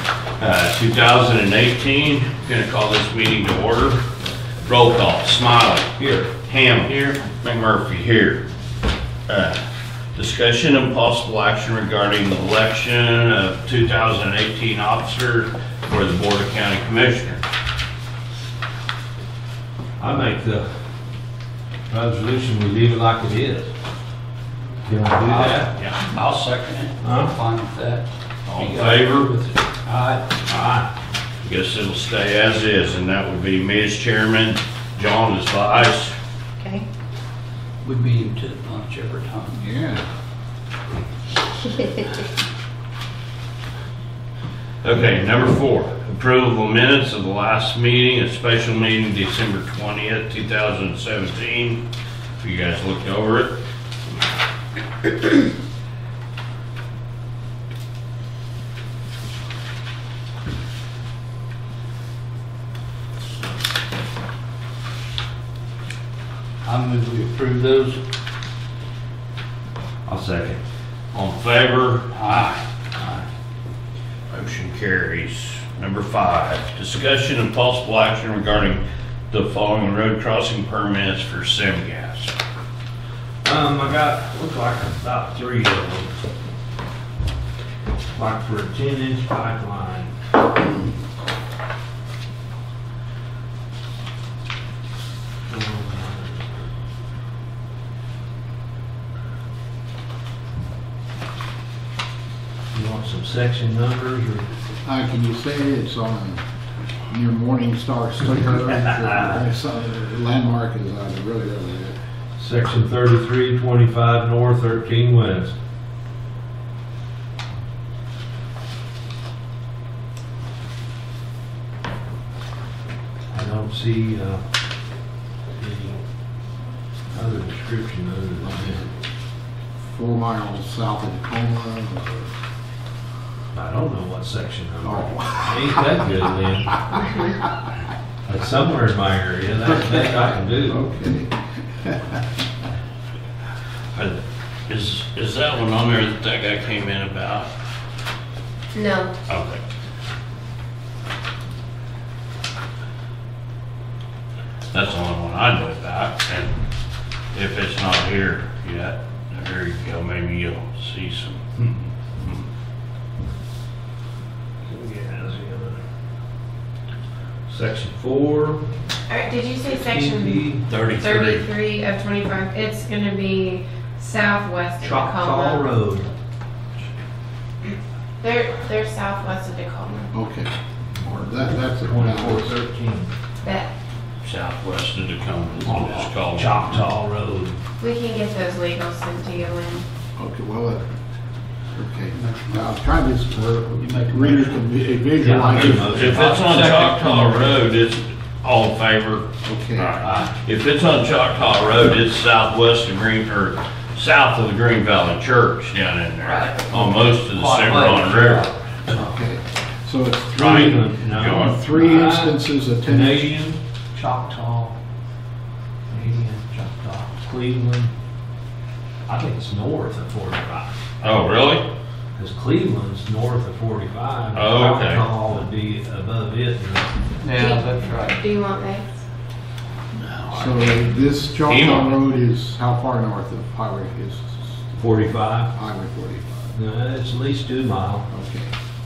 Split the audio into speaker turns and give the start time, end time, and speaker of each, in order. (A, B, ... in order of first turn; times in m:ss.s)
0:00.4-0:04.0 A
0:04.6-0:08.5 A
0:06.0-0:06.3 B
0:09.3-0:09.6 A
0:10.2-0:17.4 A
0:20.0-0:20.7 B
0:21.9-0:23.7 B
0:24.8-0:25.8 B
0:25.2-0:30.3 C
0:27.0-0:27.3 B
0:28.5-0:29.3 A
0:30.5-0:30.9 B
0:31.4-0:36.1 A
0:37.8-0:39.6 C
0:39.6-0:40.0 D
0:44.8-0:51.8 A
0:52.4-0:53.6 A
1:06.6-1:08.0 C
1:10.1-1:10.6 B
1:11.1-1:12.2 A
1:12.1-1:12.6 C
1:13.0-1:13.2 B
1:14.3-1:22.4 A
1:23.4-1:26.2 B
1:28.1-1:30.1 B
1:35.5-1:36.5 B
1:42.7-1:44.5 B
1:44.8-1:46.4 D
1:47.1-1:52.0 D
1:52.4-1:55.6 B
2:03.3-2:04.4 B
2:05.5-2:06.0 B
2:07.1-2:08.8 B
2:08.4-2:08.9 D
2:09.8-2:12.3 D
2:13.5-2:16.8 B
2:14.8-2:15.8 D
2:18.3-2:20.9 B
2:20.1-2:22.2 D
2:23.9-2:27.5 A
2:28.7-2:29.1 E
2:29.3-2:29.6 A
2:34.7-2:36.6 A
2:37.3-2:42.5 A
2:44.6-2:45.8 B
2:47.5-2:48.6 B
2:49.1-2:55.6 E
2:49.7-2:51.4 B
2:54.8-2:56.1 B
2:58.2-3:00.1 E
3:00.1-3:02.6 D
3:01.8-3:03.1 B
3:04.2-3:06.7 A
3:05.6-3:07.6 B
3:07.8-3:09.8 E
3:10.2-3:10.8 D
3:11.8-3:16.3 D
3:12.1-3:12.7 C
3:13.8-3:14.6 C
3:15.2-3:16.4 B
3:15.5-3:28.5 A
3:16.2-3:17.7 C
3:19.4-3:20.0 D
3:26.3-3:28.6 C
3:28.9-3:30.8 D
3:30.3-3:33.6 B
3:30.4-3:31.6 A
3:31.4-3:33.4 D
3:34.0-3:34.8 C
3:35.9-3:37.9 B
3:39.1-3:40.8 B
3:41.0-3:41.7 A
3:42.2-3:46.9 B
3:44.4-3:45.0 A
3:47.2-3:48.2 C
3:47.3-3:48.9 E
3:50.0-3:52.0 A
3:50.3-3:54.7 D
3:54.8-3:55.5 B
3:55.5-3:56.5 D
3:56.5-3:58.1 B
3:58.1-3:58.5 D